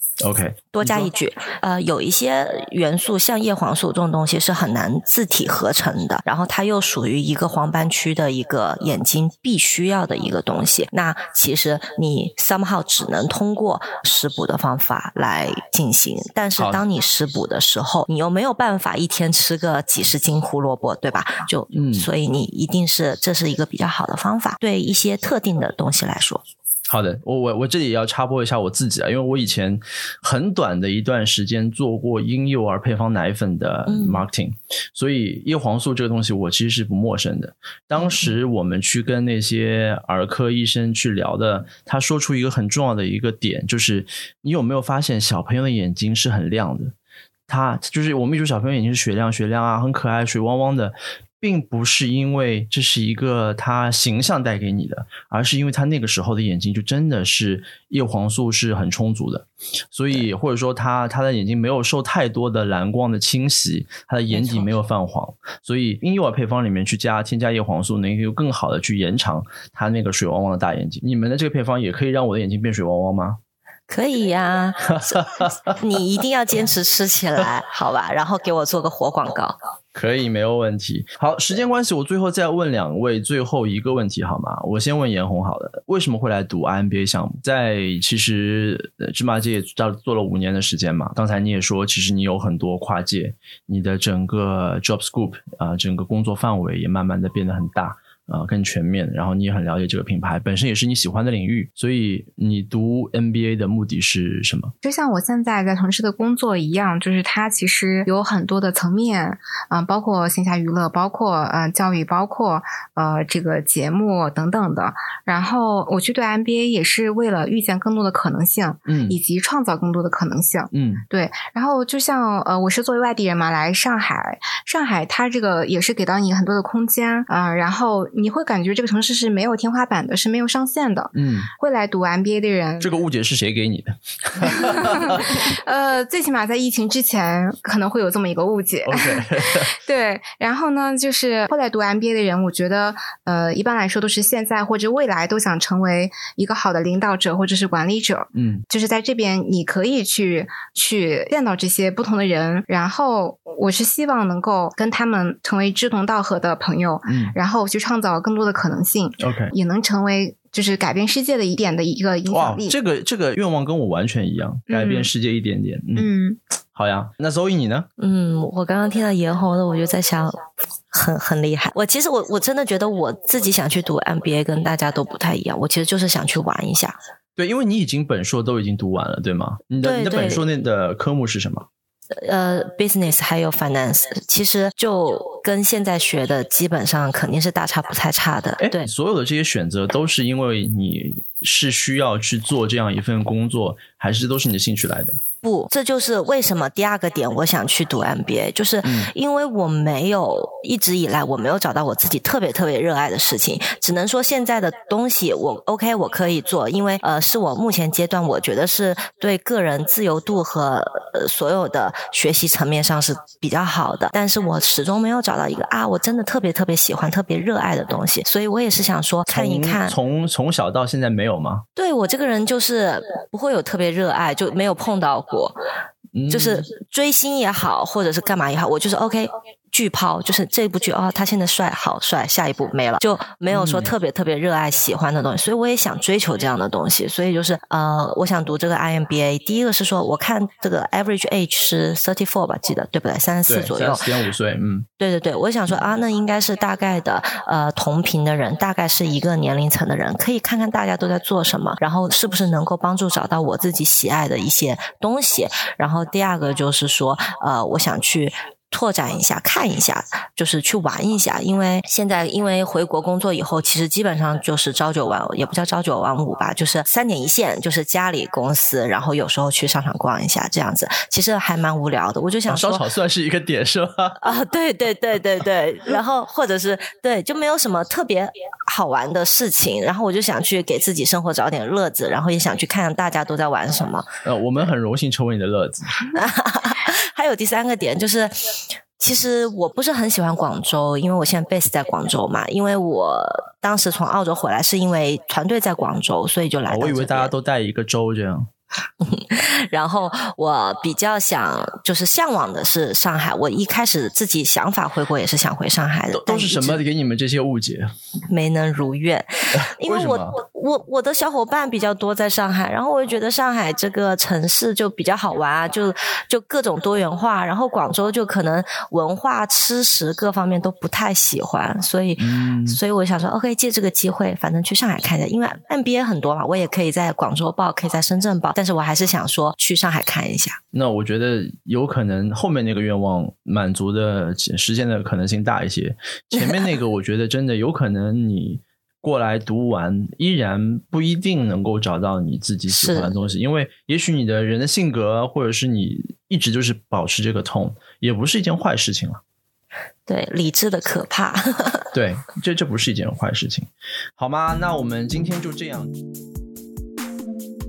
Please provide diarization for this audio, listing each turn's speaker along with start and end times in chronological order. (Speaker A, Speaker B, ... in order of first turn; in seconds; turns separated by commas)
Speaker A: 0.2-1.1, Speaker B: 0.7-26.4, Speaker A: 16.6-16.8, Speaker A: 21.7-22.1, Speaker A: 26.9-46.9, Speaker B: 33.9-34.2, Speaker B: 38.0-38.3, Speaker A: 47.5-73.4, Speaker B: 64.3-64.7, Speaker B: 73.9-75.2, Speaker A: 74.9-75.8, Speaker B: 75.8-79.6, Speaker A: 80.0-104.7, Speaker C: 104.8-132.9, Speaker A: 118.9-119.2, Speaker A: 120.7-121.0, Speaker A: 131.1-131.5, Speaker A: 132.8-135.4, Speaker C: 134.4-162.8, Speaker A: 138.9-139.7, Speaker A: 148.3-148.6, Speaker A: 157.1-157.3, Speaker A: 159.2-159.5, Speaker A: 162.3-166.1, Speaker C: 164.7-165.1, Speaker C: 166.0-166.4, Speaker A: 166.7-167.9, Speaker B: 168.0-170.4, Speaker B: 170.9-177.0, Speaker A: 177.4-181.7, Speaker B: 179.8-180.4, Speaker B: 182.1-188.9, Speaker A: 188.6-195.2, Speaker B: 195.4-220.0, Speaker A: 198.8-199.1, Speaker A: 219.3-221.7, Speaker B: 221.8-225.6, Speaker A: 226.1-226.7, Speaker B: 226.3-244.1, Speaker A: 233.5-233.9, Speaker A: 243.5-244.9, Speaker B: 245.0-272.9, Speaker A: 272.5-274.3, Speaker B: 274.2-284.1, Speaker A: 284.2-286.0, Speaker B: 286.1-297.3, Speaker A: 296.7-298.5, Speaker B: 299.0-306.8, Speaker A: 306.1-307.9, Speaker B: 308.3-330.6, Speaker A: 309.5-310.4, Speaker A: 322.2-322.8, Speaker A: 330.7-349.2, Speaker B: 336.4-336.6, Speaker B: 342.7-343.1, Speaker B: 350.1-351.9, Speaker A: 351.9-355.9